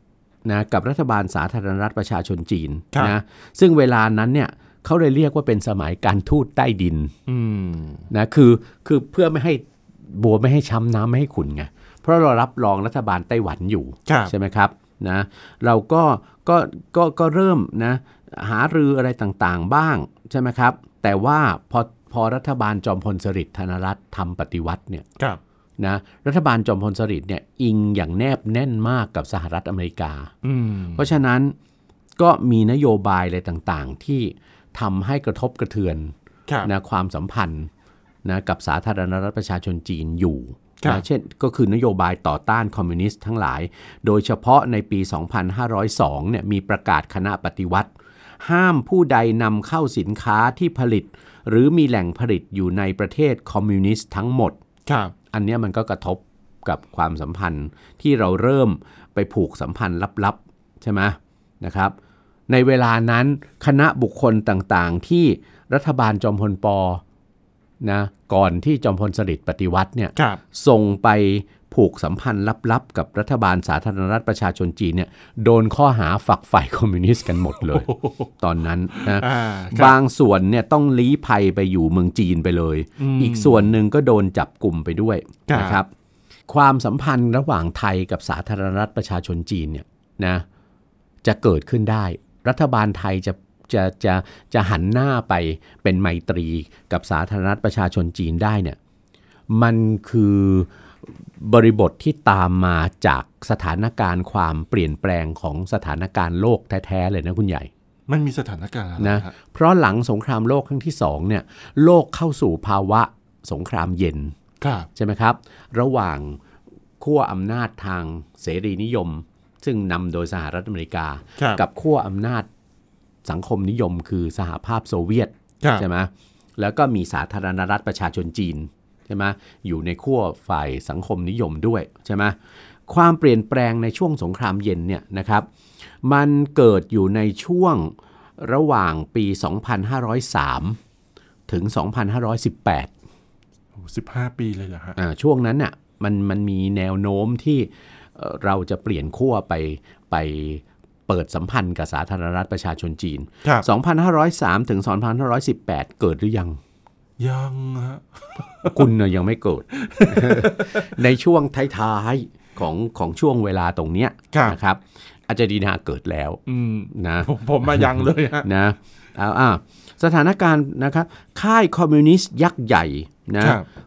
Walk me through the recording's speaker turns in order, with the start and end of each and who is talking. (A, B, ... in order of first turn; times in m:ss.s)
0:00.4-0:07.1 A
0:07.3-0:08.1 B
0:08.1-0:25.1 A
0:14.1-0:14.3 B
0:25.8-0:30.3 A
0:30.4-0:31.1 B
0:31.0-0:31.6 A
0:32.2-0:36.1 A
0:36.6-0:37.7 A
0:38.2-0:54.6 A
0:54.9-0:55.1 B
0:55.3-1:02.0 A
1:02.5-1:07.0 A
1:07.8-1:17.9 A
1:10.2-1:10.4 B
1:17.6-1:18.3 B
1:18.4-1:25.9 A
1:18.9-1:20.0 B
1:23.0-1:23.7 B
1:25.5-1:25.8 B
1:26.5-1:30.4 A
1:31.2-1:38.8 A
1:39.5-1:40.7 A
1:41.4-1:47.7 A
1:48.1-1:49.3 B
1:49.0-1:54.3 A
1:54.6-1:54.9 B
1:55.0-1:56.4 A
1:57.0-2:02.5 A
2:03.2-2:12.4 A
2:12.9-2:15.5 A
2:16.0-2:20.8 A
2:21.5-2:22.9 A
2:23.8-2:25.0 B
2:25.0-2:36.6 A
2:37.2-2:38.9 B
2:38.7-2:46.4 A
2:39.7-2:41.0 B
2:44.3-2:44.6 B
2:46.5-2:48.5 B
2:46.9-2:47.8 A
2:48.4-2:53.6 A
2:53.4-2:53.7 B